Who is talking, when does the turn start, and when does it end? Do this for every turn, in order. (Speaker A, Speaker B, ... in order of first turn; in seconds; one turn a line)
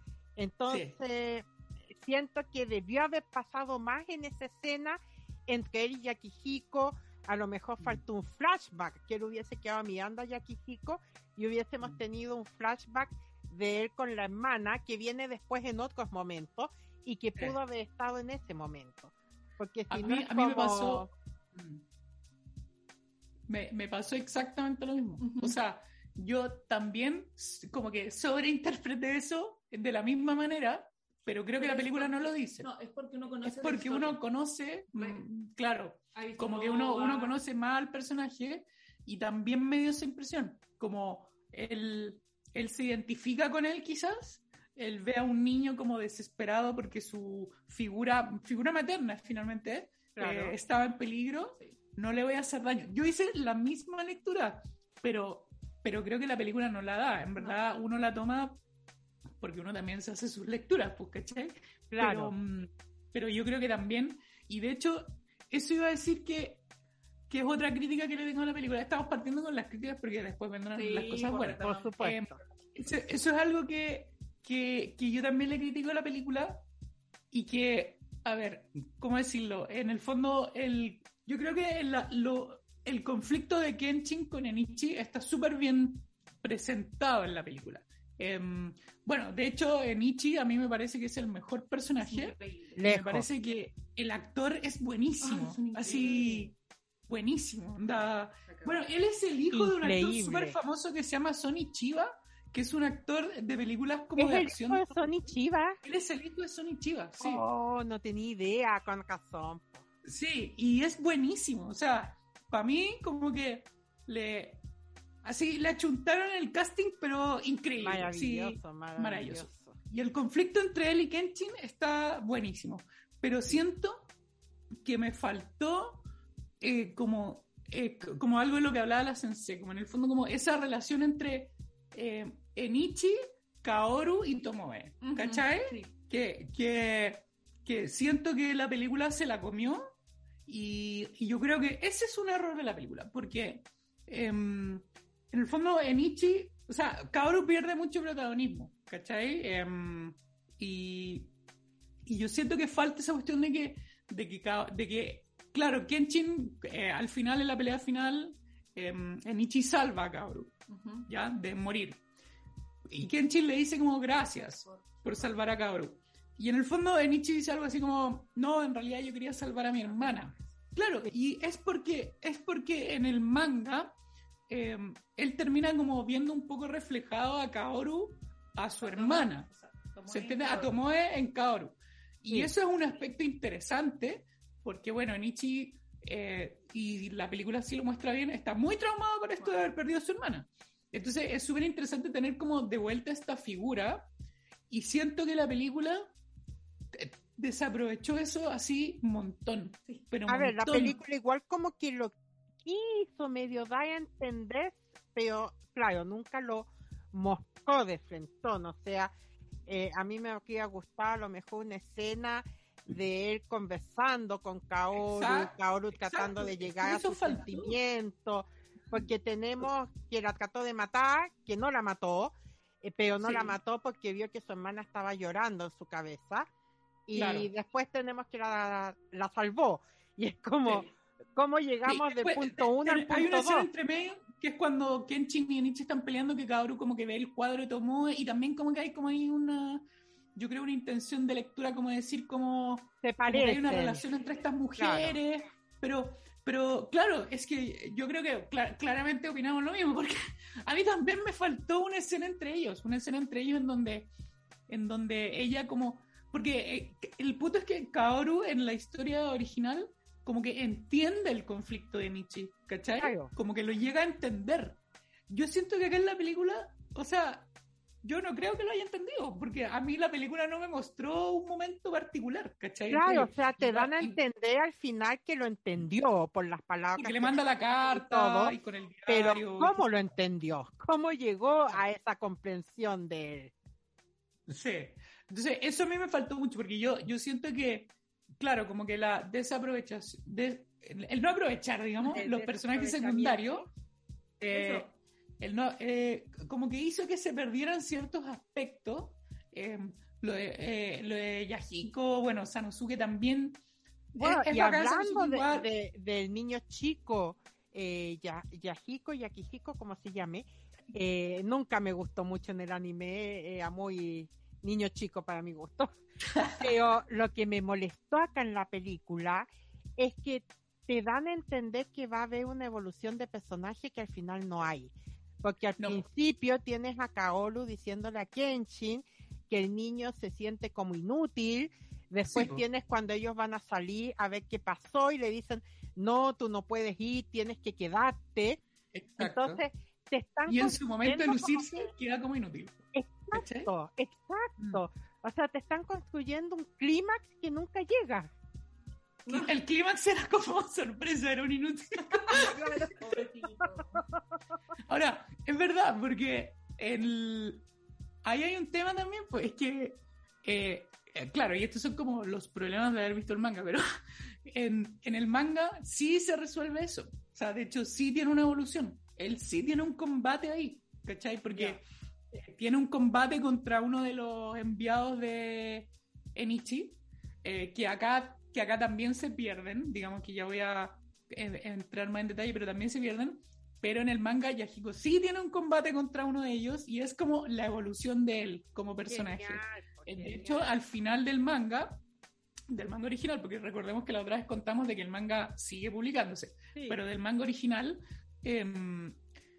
Speaker A: 0.4-21.1
Speaker B: 0.7-0.9
Speaker B: 19.9-21.8
Speaker B: 23.5-32.7
Speaker C: 25.2-25.6
Speaker C: 31.6-34.2
Speaker B: 33.4-58.6
Speaker C: 35.0-35.2
Speaker C: 36.1-37.4
Speaker A: 50.2-50.6
Speaker B: 59.4-66.6
Speaker A: 61.9-62.3
Speaker B: 67.3-76.6
Speaker C: 70.7-72.0
Speaker A: 71.6-72.4
Speaker B: 77.3-96.5
Speaker C: 92.1-92.8
Speaker A: 92.8-93.3
Speaker C: 95.2-96.5
Speaker B: 97.1-105.0
Speaker C: 98.5-98.8
Speaker A: 99.5-100.6
Speaker A: 104.2-105.8
Speaker B: 105.8-107.4
Speaker A: 107.2-109.8
Speaker B: 110.0-114.6
Speaker B: 115.2-124.1
Speaker A: 117.8-119.8
Speaker B: 124.8-126.0
Speaker B: 126.6-139.8
Speaker C: 135.0-135.9
Speaker B: 140.5-151.3
Speaker B: 152.1-160.6
Speaker C: 160.7-161.1
Speaker B: 161.1-162.0
Speaker B: 162.9-173.9
Speaker C: 164.2-165.5
Speaker C: 169.9-170.4
Speaker B: 174.5-179.5
Speaker C: 178.8-180.8
Speaker B: 180.1-194.1
Speaker C: 189.4-189.7
Speaker B: 194.7-196.1
Speaker B: 196.9-201.0
Speaker A: 200.3-209.1
Speaker A: 209.7-226.5
Speaker B: 215.0-217.8
Speaker B: 223.2-223.5
Speaker A: 227.1-233.7
Speaker B: 227.2-227.5
Speaker B: 231.9-239.8
Speaker B: 240.4-254.1
Speaker A: 243.0-244.0
Speaker C: 243.8-244.5
Speaker A: 244.8-245.2
Speaker B: 254.7-267.5
Speaker A: 263.0-263.3
Speaker B: 268.0-274.2
Speaker A: 272.9-278.6
Speaker B: 277.0-279.8
Speaker A: 279.1-283.5
Speaker B: 284.5-293.7
Speaker A: 292.1-293.7
Speaker B: 294.5-294.9
Speaker C: 294.5-294.9
Speaker B: 295.4-303.6
Speaker B: 304.1-305.7
Speaker A: 304.2-316.0
Speaker B: 316.4-316.6
Speaker A: 316.6-338.6
Speaker B: 325.8-326.0
Speaker B: 332.3-332.6
Speaker B: 338.9-339.6
Speaker A: 339.2-341.9
Speaker B: 340.5-343.7
Speaker A: 342.9-348.3
Speaker B: 349.3-352.6
Speaker C: 352.2-354.1
Speaker A: 352.3-353.1
Speaker B: 354.9-357.7
Speaker B: 358.2-363.8
Speaker B: 364.5-392.0
Speaker A: 389.1-390.6
Speaker B: 392.7-399.2